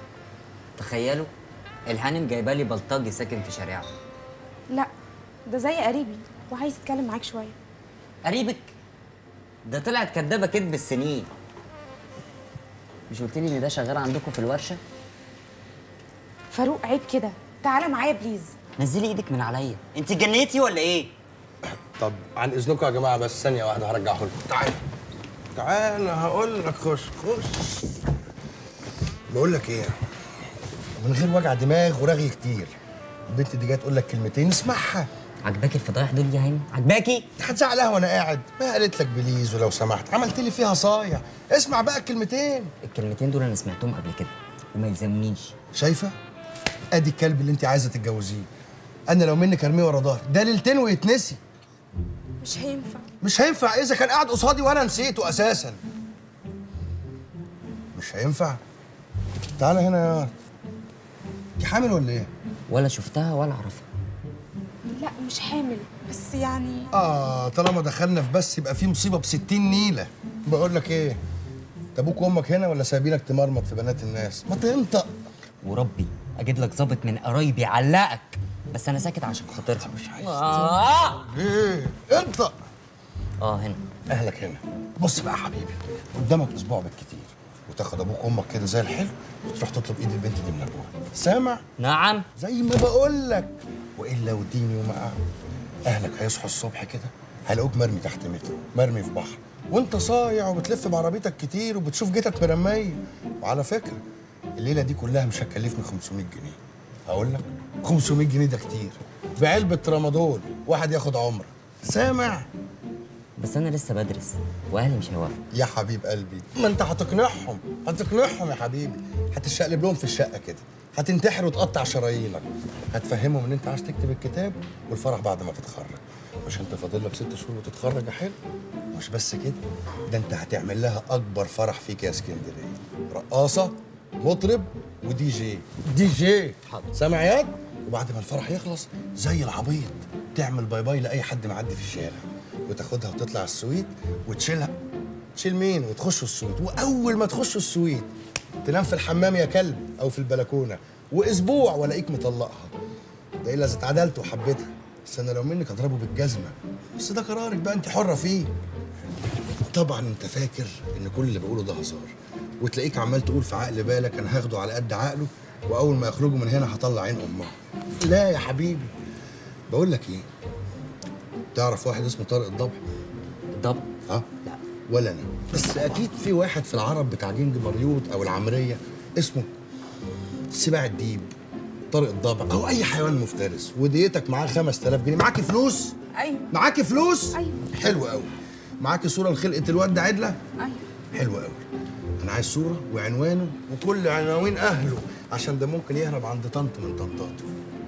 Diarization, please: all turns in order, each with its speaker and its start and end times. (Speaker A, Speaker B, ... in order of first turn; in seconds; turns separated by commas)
Speaker A: 0.8-1.3, Speaker A: 1.9-3.9, Speaker B: 5.5-7.5, Speaker A: 8.2-8.7, Speaker A: 9.6-11.3, Speaker A: 13.1-14.8, Speaker B: 16.5-18.5, Speaker A: 18.8-21.1, Speaker C: 21.6-24.8, Speaker C: 25.5-28.0, Speaker C: 29.3-29.9, Speaker C: 31.0-32.7, Speaker C: 33.3-35.1, Speaker A: 35.4-37.2, Speaker C: 37.4-42.7, Speaker A: 42.8-45.5, Speaker C: 45.7-46.1, Speaker C: 46.9-48.5, Speaker C: 49.1-51.4, Speaker B: 52.4-53.0, Speaker C: 53.2-55.8, Speaker C: 57.9-58.6, Speaker C: 59.6-60.3, Speaker C: 61.6-62.3, Speaker A: 62.7-63.9, Speaker B: 64.9-66.9, Speaker C: 66.9-71.2, Speaker C: 72.0-75.1, Speaker A: 75.6-81.2, Speaker C: 79.5-82.5, Speaker A: 83.4-83.8, Speaker C: 84.1-91.6, Speaker A: 91.8-92.2, Speaker C: 92.3-95.2, Speaker C: 95.8-104.0, Speaker C: 104.6-112.5, Speaker A: 113.4-115.4, Speaker C: 115.5-128.4, Speaker C: 128.9-144.7, Speaker A: 136.7-136.9, Speaker C: 145.3-148.1, Speaker C: 148.6-152.7, Speaker C: 153.4-158.5, Speaker C: 159.7-168.9, Speaker C: 169.7-170.3, Speaker C: 171.5-172.8, Speaker A: 173.5-173.8, Speaker C: 174.1-179.5, Speaker C: 180.5-181.3, Speaker C: 181.9-185.9, Speaker B: 186.1-186.5, Speaker C: 186.5-190.4, Speaker B: 187.3-187.7, Speaker B: 190.6-190.8, Speaker C: 191.1-191.6, Speaker C: 192.2-197.5